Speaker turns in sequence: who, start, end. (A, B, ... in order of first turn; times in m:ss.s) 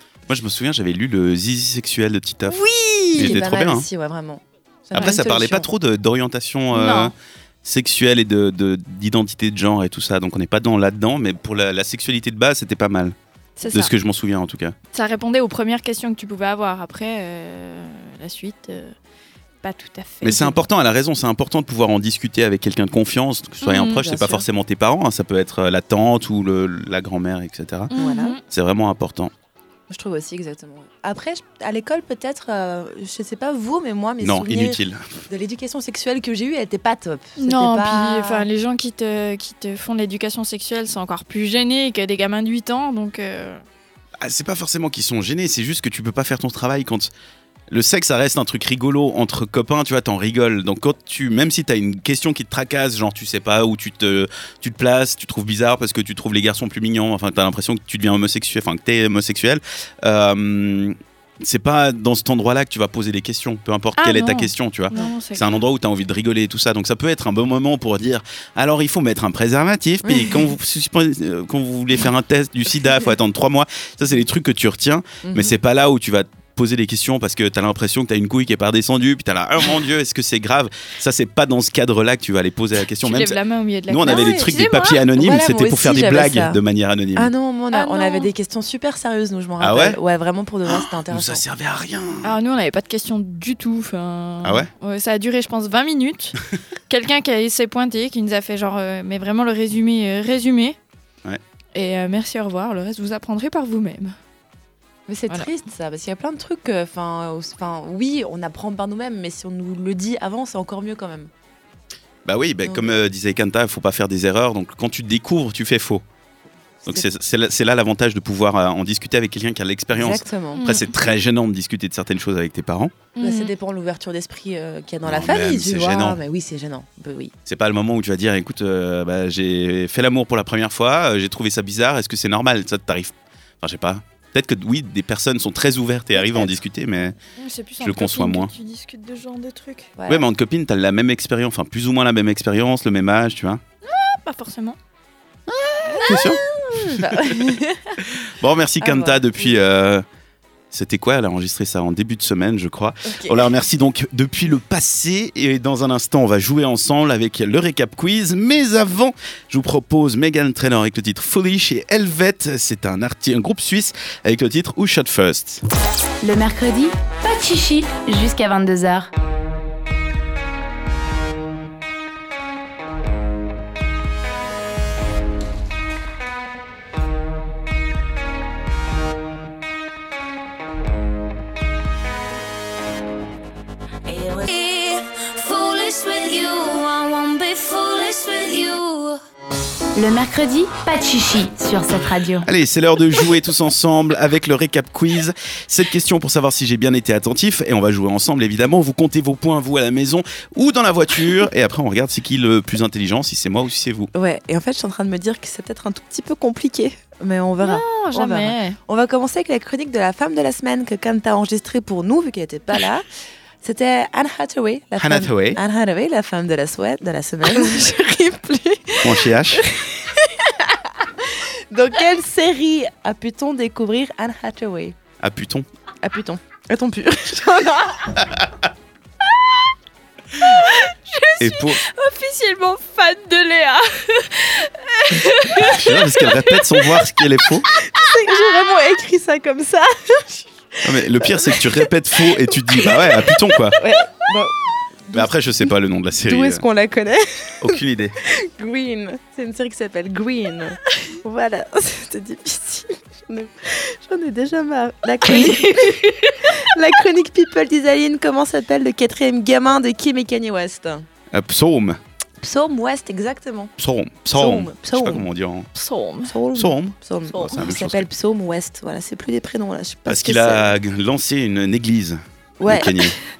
0:00.3-0:02.6 A
0:02.5-0:05.7 B
0:03.1-0:03.8 A
0:05.0-0:13.2 A
0:06.7-0:07.1 C
0:13.6-0:13.9 C
0:13.7-0:14.7 A
0:14.9-0:18.9 C
0:19.6-0:20.6 C
0:20.2-0:27.9 A
0:23.6-0:24.0 C
0:23.8-0:24.4 B
0:27.9-0:28.4 C
0:28.0-0:28.4 B
0:28.4-0:29.3 A
0:29.9-0:38.4 B
0:34.2-0:35.1 A
0:37.4-0:43.6 C
0:44.2-0:47.1 A
0:47.7-1:23.4 A
1:04.0-1:05.6 C
1:10.0-1:10.5 B
1:15.2-1:15.5 B
1:23.0-1:25.0 C
1:23.9-1:27.3 A
1:24.0-1:24.6 B
1:25.2-1:26.6 B
1:27.2-1:31.4 B
1:27.7-1:28.3 C
1:29.6-1:30.0 A
1:30.7-1:32.3 A
1:32.2-1:36.4 C
1:34.4-1:34.7 A
1:36.9-1:40.8 C
1:41.7-1:44.1 C
1:45.1-1:51.3 B
1:52.2-1:56.0 A
1:52.6-1:52.9 B
1:56.8-2:02.9 A
1:59.9-2:00.7 B
2:00.6-2:00.8 C
2:03.2-2:03.5 C
2:03.2-2:07.3 B
2:05.1-2:06.2 A
2:07.4-2:17.2 A
2:17.4-2:19.9 C
2:17.8-2:18.5 A
2:20.0-2:20.3 B
2:20.1-2:23.6 A
2:23.8-2:24.8 C
2:25.6-2:27.4 A
2:25.9-2:26.2 C
2:26.2-2:27.6 B
2:28.0-2:30.0 A
2:28.8-2:29.6 B
2:30.7-2:45.6 A
2:33.1-2:33.5 B
2:46.2-2:49.1 D
3:04.0-3:09.2 E
3:09.9-3:12.5 D
3:12.4-3:24.1 A
3:24.1-3:33.0 B
3:27.6-3:28.8 C
3:33.6-3:38.0 B
3:35.0-3:35.6 A
3:37.5-3:39.0 C
3:39.0-3:39.6 A
3:39.8-3:40.1 B
3:41.2-3:45.0 B
3:45.2-3:45.7 A
3:46.0-3:48.2 B
3:50.4-3:57.1 C
3:51.4-3:51.8 A
3:55.5-3:57.7 A
3:57.9-4:00.4 B
4:00.8-4:03.8 A
4:01.2-4:01.8 B
4:03.8-4:04.5 B
4:05.1-4:05.7 B
4:05.1-4:06.6 A
4:06.2-4:21.0 B
4:07.6-4:08.1 A
4:15.2-4:16.4 C
4:21.3-4:22.0 A
4:22.4-4:23.7 B
4:23.8-4:25.7 A
4:24.3-4:25.3 B
4:25.7-4:26.3 C
4:26.3-4:30.7 B
4:26.5-4:27.0 A
4:27.3-4:27.6 C
4:27.5-4:28.1 A
4:30.1-4:33.2 A
4:32.6-4:33.1 B